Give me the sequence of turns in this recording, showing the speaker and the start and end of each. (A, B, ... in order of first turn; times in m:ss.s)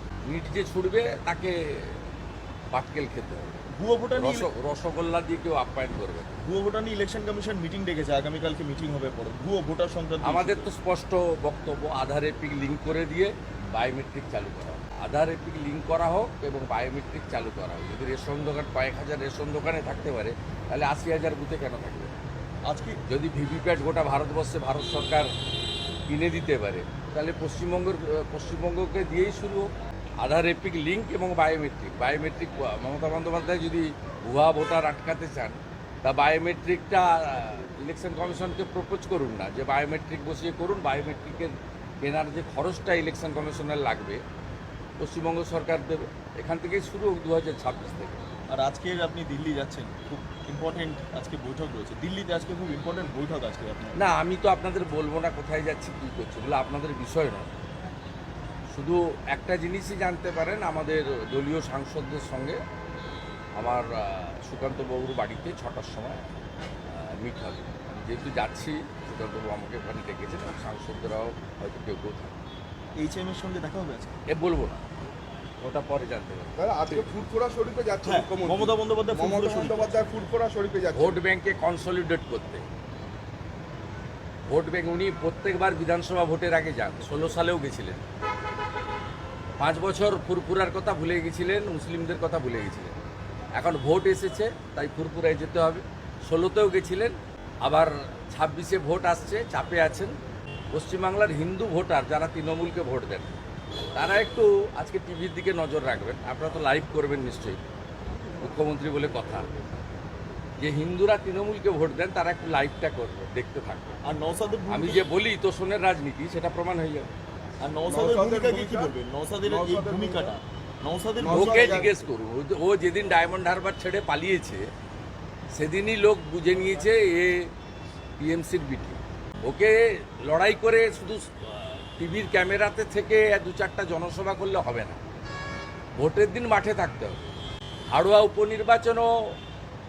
0:00.2-0:02.0 A
0:02.7-0:03.5 A
0:03.8-0:04.5 B
0:04.2-0:06.3 A
0:06.4-0:10.7 B
0:10.2-0:22.1 A
0:22.6-0:23.0 B
0:23.1-0:25.3 A
0:26.1-0:44.2 A
0:45.0-0:48.2 A
0:48.5-0:54.0 B
0:54.0-0:57.6 A
0:58.7-1:02.6 A
1:03.6-1:06.3 A
1:06.8-1:12.4 A
1:13.0-1:14.2 B
1:14.3-1:14.8 A
1:15.6-1:17.0 A
1:16.6-1:21.2 C
1:18.0-1:20.0 B
1:20.9-1:22.6 A
1:24.5-1:28.0 A
1:29.6-1:32.9 A
1:33.6-1:40.2 A
1:40.7-1:43.4 A
1:43.9-1:47.6 A
1:48.4-1:49.5 A
1:50.6-1:54.0 A
1:54.0-1:55.1 B
1:54.7-1:57.1 A
1:57.6-2:02.0 B
1:57.9-2:00.3 C
2:01.2-2:02.0 C
2:01.3-2:04.7 A
2:05.5-2:07.5 A
2:08.2-2:15.0 A
2:16.0-2:17.2 A
2:17.9-2:19.1 A